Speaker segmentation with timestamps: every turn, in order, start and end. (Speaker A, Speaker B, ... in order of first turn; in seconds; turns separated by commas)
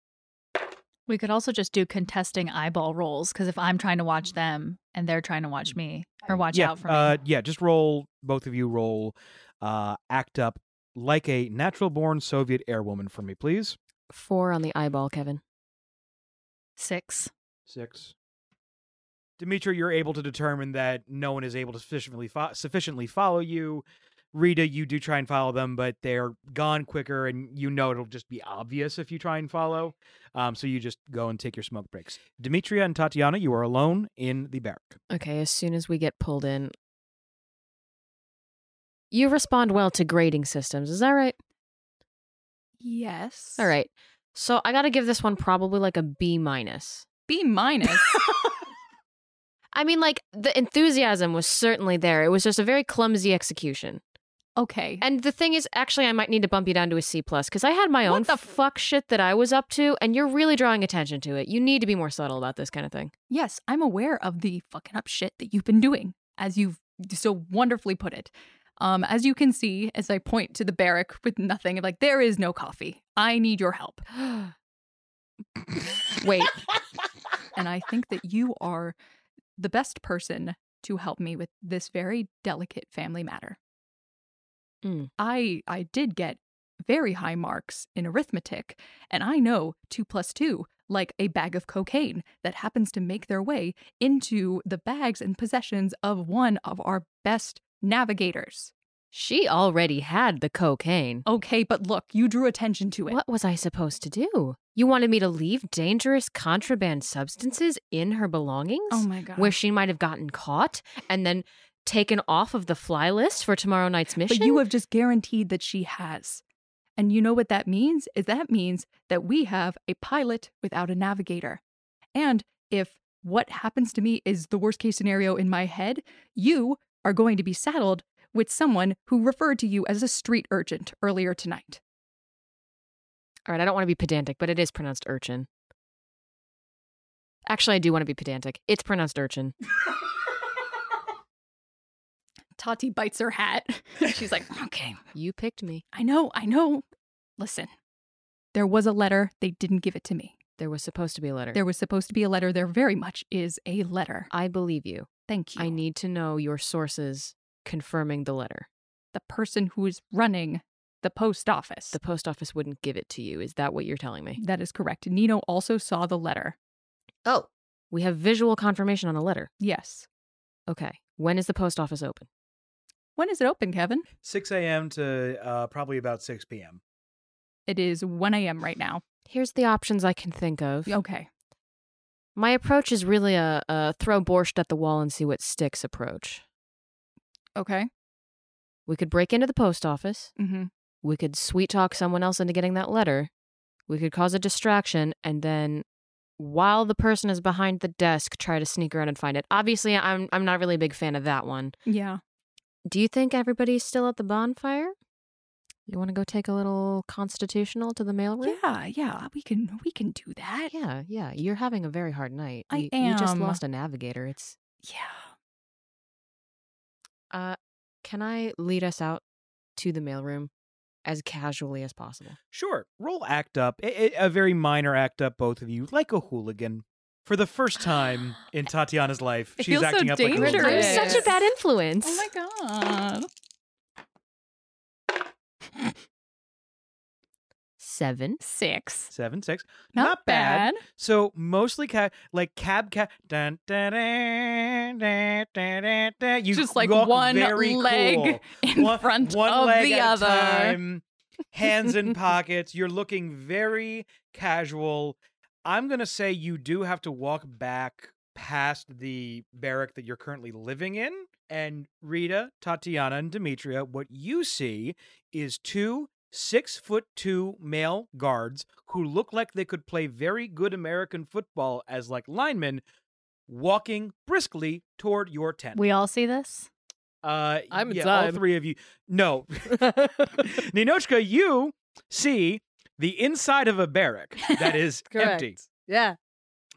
Speaker A: 1.1-7.2, Speaker B: 6.5-13.8, Speaker C: 14.1-15.4, Speaker A: 16.8-17.3, Speaker B: 17.7-18.1, Speaker B: 19.4-35.0, Speaker C: 35.1-36.7, Speaker C: 39.1-41.4, Speaker D: 42.8-43.7, Speaker C: 43.6-47.0, Speaker D: 47.3-48.4, Speaker C: 49.7-54.0, Speaker D: 54.5-55.0, Speaker C: 55.0-63.1, Speaker D: 58.0-58.4, Speaker D: 63.3-74.1, Speaker C: 76.2-76.6, Speaker D: 77.5-79.0, Speaker D: 79.6-83.6, Speaker C: 84.8-85.1, Speaker D: 85.2-98.7, Speaker C: 99.1-101.2, Speaker D: 101.2-103.2, Speaker C: 103.1-114.6, Speaker D: 108.9-109.5, Speaker D: 114.3-116.4, Speaker D: 117.0-121.6, Speaker D: 122.1-131.8, Speaker C: 133.5-135.5, Speaker C: 137.4-139.5, Speaker D: 142.6-145.0, Speaker C: 145.1-145.8, Speaker D: 145.9-146.8, Speaker D: 147.4-147.7, Speaker D: 148.5-150.3, Speaker C: 150.6-151.6, Speaker D: 151.5-154.3, Speaker C: 154.3-158.7, Speaker D: 155.3-155.8, Speaker D: 159.1-162.0, Speaker C: 161.9-164.4, Speaker D: 164.3-166.6, Speaker C: 167.2-169.5, Speaker D: 169.6-170.1, Speaker C: 170.7-172.3, Speaker D: 173.2-174.1, Speaker B: 174.2-176.8, Speaker D: 177.7-179.0, Speaker C: 179.3-181.0, Speaker D: 180.9-181.3, Speaker C: 182.3-186.4, Speaker D: 187.6-187.9, Speaker C: 188.9-190.3, Speaker D: 190.4-190.7, Speaker C: 191.0-193.3, Speaker C: 193.9-195.8, Speaker C: 196.4-201.7, Speaker D: 201.8-202.2, Speaker C: 202.8-204.9, Speaker C: 205.9-208.6, Speaker D: 208.4-210.7, Speaker C: 210.7-214.6, Speaker D: 212.7-213.6, Speaker D: 214.8-215.3, Speaker C: 217.3-219.2, Speaker C: 219.8-220.5, Speaker C: 221.0-222.3, Speaker B: 222.5-231.2, Speaker D: 229.6-231.3, Speaker C: 230.3-232.3, Speaker E: 230.7-231.2, Speaker D: 232.0-233.3, Speaker C: 237.8-238.4, Speaker D: 238.4-239.1, Speaker B: 239.1-272.8, Speaker D: 239.9-240.8, Speaker D: 246.5-250.8, Speaker B: 273.5-275.8, Speaker A: 275.7-276.7, Speaker B: 277.2-285.6, Speaker E: 277.7-278.4, Speaker E: 279.8-280.5, Speaker E: 285.1-286.1